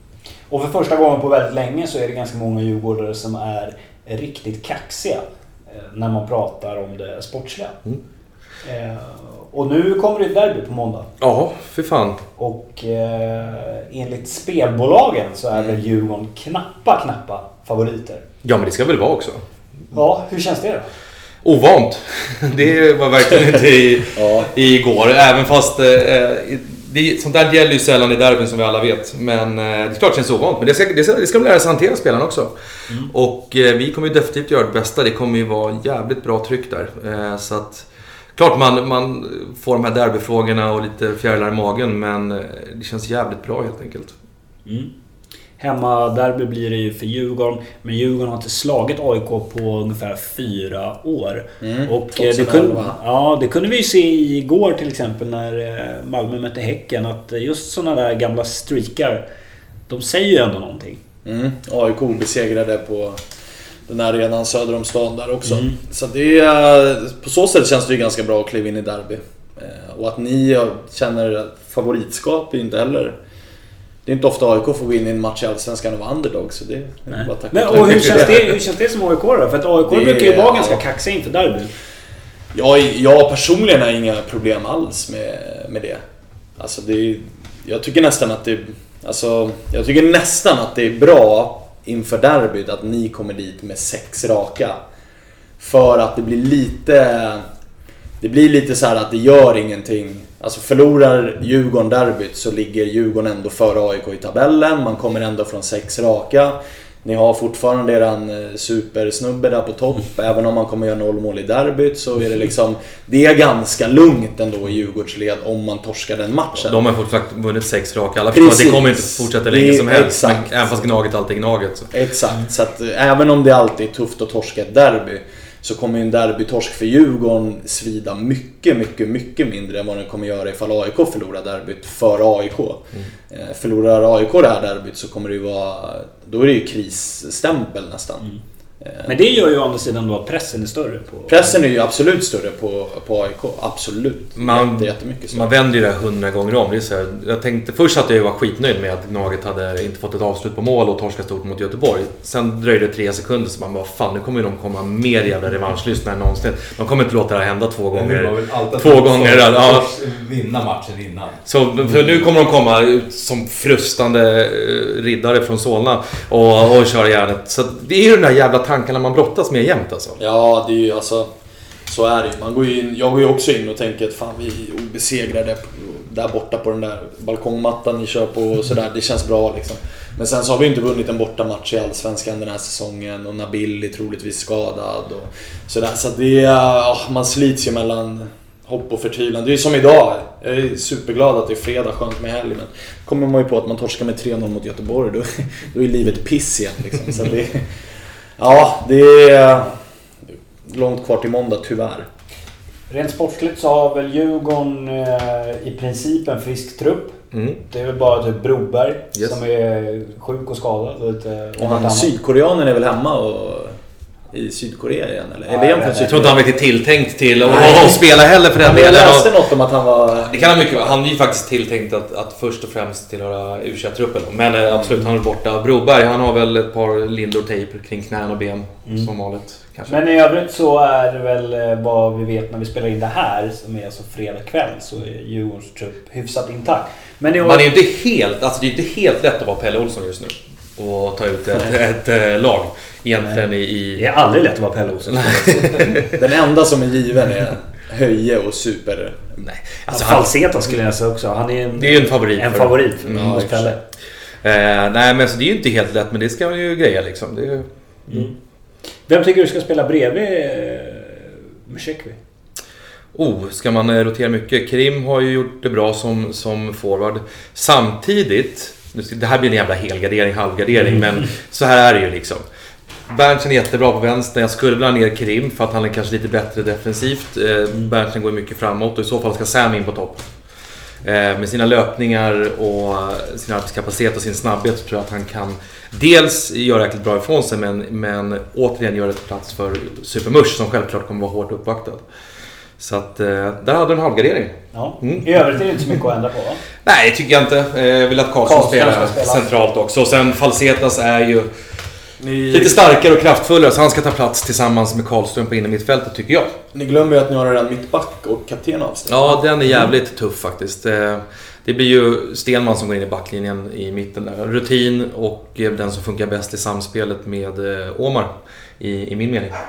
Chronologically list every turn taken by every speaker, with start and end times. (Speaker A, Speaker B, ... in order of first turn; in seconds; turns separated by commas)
Speaker A: 0.5-7.8, Speaker A: 8.6-11.1, Speaker B: 11.2-12.2, Speaker A: 12.4-18.2, Speaker B: 18.4-19.4, Speaker A: 19.9-20.9, Speaker B: 21.4-44.1, Speaker C: 24.1-24.5, Speaker A: 44.6-44.9, Speaker A: 45.6-59.2, Speaker C: 51.6-53.0, Speaker A: 59.9-61.0, Speaker C: 61.2-63.3, Speaker C: 63.9-73.2, Speaker A: 65.5-65.8, Speaker C: 74.0-78.5, Speaker A: 77.1-81.7, Speaker B: 77.8-78.1, Speaker C: 79.9-80.8, Speaker C: 82.5-86.0, Speaker C: 86.6-94.8, Speaker C: 95.6-97.4, Speaker C: 98.2-116.8, Speaker B: 116.6-121.9, Speaker C: 118.3-120.8, Speaker C: 121.9-138.3, Speaker C: 138.8-139.1, Speaker A: 139.1-141.6, Speaker C: 141.3-145.5, Speaker B: 144.4-159.9, Speaker D: 157.9-161.5, Speaker B: 161.5-170.2, Speaker C: 170.2-171.3, Speaker C: 171.9-197.6, Speaker C: 198.4-199.7, Speaker C: 200.6-202.1, Speaker A: 202.9-212.1, Speaker B: 207.3-207.6, Speaker C: 211.6-213.8, Speaker C: 214.3-216.4, Speaker A: 215.5-216.4, Speaker B: 216.0-219.4, Speaker C: 217.4-221.4, Speaker B: 220.2-229.9, Speaker C: 224.7-225.0, Speaker A: 229.9-237.7, Speaker B: 237.4-244.1, Speaker A: 243.9-246.0, Speaker B: 245.1-246.1, Speaker C: 246.1-249.3, Speaker B: 249.4-250.3, Speaker A: 249.9-253.8, Speaker B: 251.8-253.5, Speaker C: 253.0-253.8, Speaker B: 254.4-258.3, Speaker A: 258.1-258.3, Speaker A: 259.1-262.2, Speaker B: 263.1-272.4, Speaker A: 270.8-271.2, Speaker B: 273.1-280.3, Speaker B: 281.0-292.0, Speaker B: 292.8-295.3, Speaker A: 294.7-296.6, Speaker B: 296.8-301.5, Speaker A: 298.4-299.4, Speaker C: 302.2-303.0, Speaker B: 302.5-306.5, Speaker C: 306.7-309.4, Speaker B: 309.1-319.6